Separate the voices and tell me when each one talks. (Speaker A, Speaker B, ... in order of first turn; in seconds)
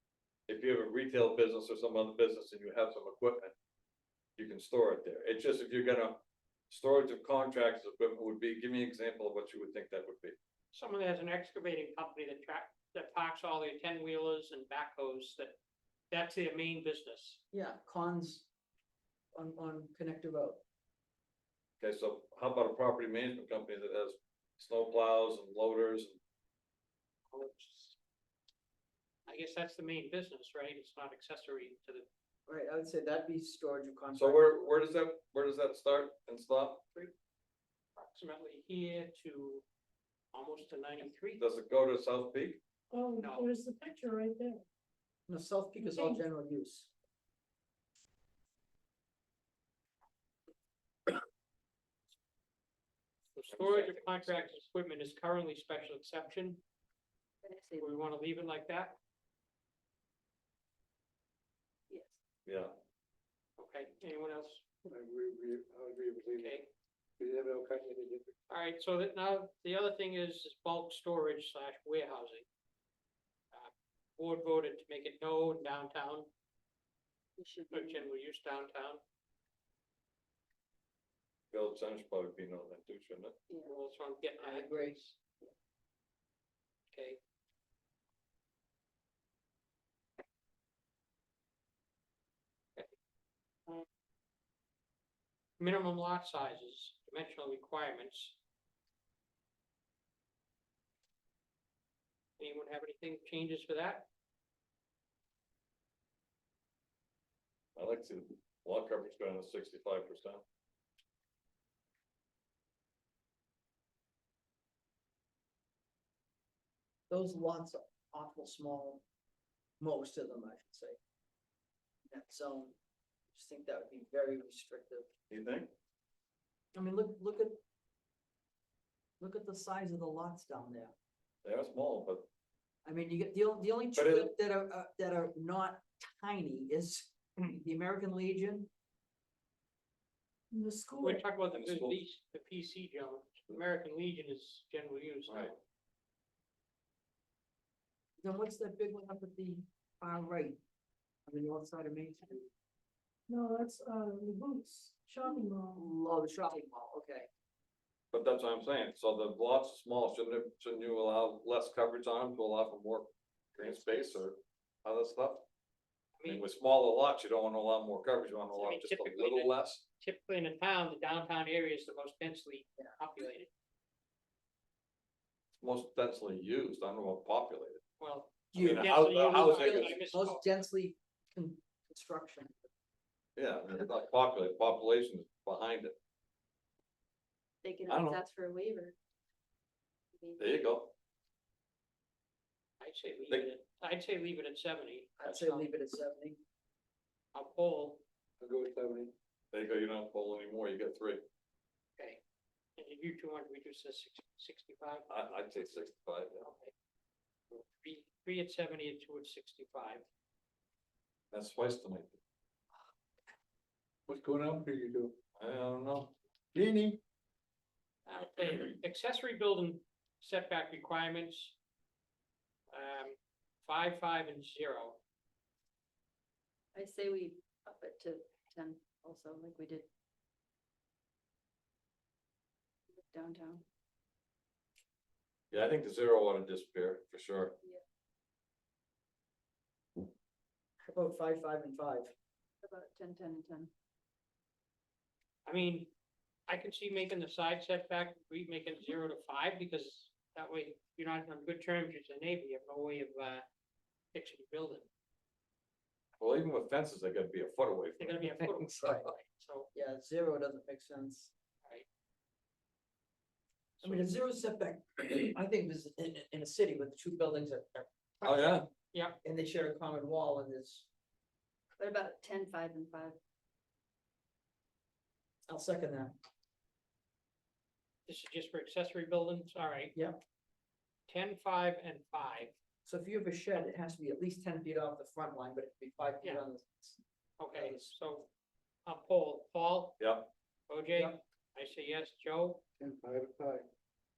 Speaker A: 0.5-3.5, 4.4-10.4, 21.8-26.2, 34.1-36.8, 41.4-42.6, 53.5-54.5, 62.5-62.7, 81.5-83.4, 107.8-110.4, 125.3-125.7, 131.4-132.3, 133.9-134.3, 141.5-142.0, 145.3-145.5, 158.1-165.4, 166.3-169.9, 175.6-177.8, 178.6-180.0, 183.4-186.0, 187.9-188.2, 190.4-190.9, 199.5-201.2, 205.1-206.5, 211.3-212.2, 215.4-216.2, 235.5-237.6, 256.2-258.9, 268.2-268.7, 290.0-290.3
Speaker B: 10.7-15.6, 16.1-17.4, 27.3-28.0, 29.3-32.1, 38.0-39.6, 40.3-41.5, 43.2-43.5, 53.4-56.6, 57.8-59.0, 63.6-64.6, 66.4-66.7, 68.5-72.5, 73.5-76.3, 77.7-79.0, 83.6-85.2, 86.9-87.2, 95.6-98.4, 102.4-104.1, 141.0-145.6, 166.2-166.4, 168.5-173.5, 178.0-180.4, 192.8-195.7, 197.3-198.0, 202.8-205.1, 206.4-206.7, 207.5-210.1, 218.1-221.6, 222.7-225.0, 245.4-245.9, 246.5-253.5, 254.1-254.9, 258.0-259.7, 268.2-269.2, 278.1-279.9, 281.1-282.5, 287.4-288.3, 288.9-290.0, 290.7-292.6
Speaker C: 17.5-18.5, 19.3-20.6, 32.5-34.8, 45.3-46.9, 84.4-85.0, 117.1-119.0, 119.8-121.0, 122.1-122.8, 123.3-125.1, 126.8-127.6, 129.2-130.9, 132.8-138.7, 148.2-150.6, 151.3-152.5, 155.8-157.3, 178.5-182.7, 195.2-196.4, 240.9-242.1, 258.7-259.1, 259.7-261.3, 263.8-268.5, 269.2-270.9, 275.5-276.1, 282.9-287.0, 287.5-287.9, 290.9-291.2
Speaker D: 42.9-44.6, 45.8-46.2, 140.5-141.2, 153.3-155.8
Speaker E: 57.4-58.0, 61.9-62.2, 77.4-78.1, 187.6-188.9, 190.2-190.7, 226.7-229.9, 232.9-233.7, 242.6-243.7, 271.8-273.2
Speaker F: 64.9-66.6, 67.2-68.3, 198.4-199.1, 214.1-215.2, 216.5-217.0, 292.8-293.7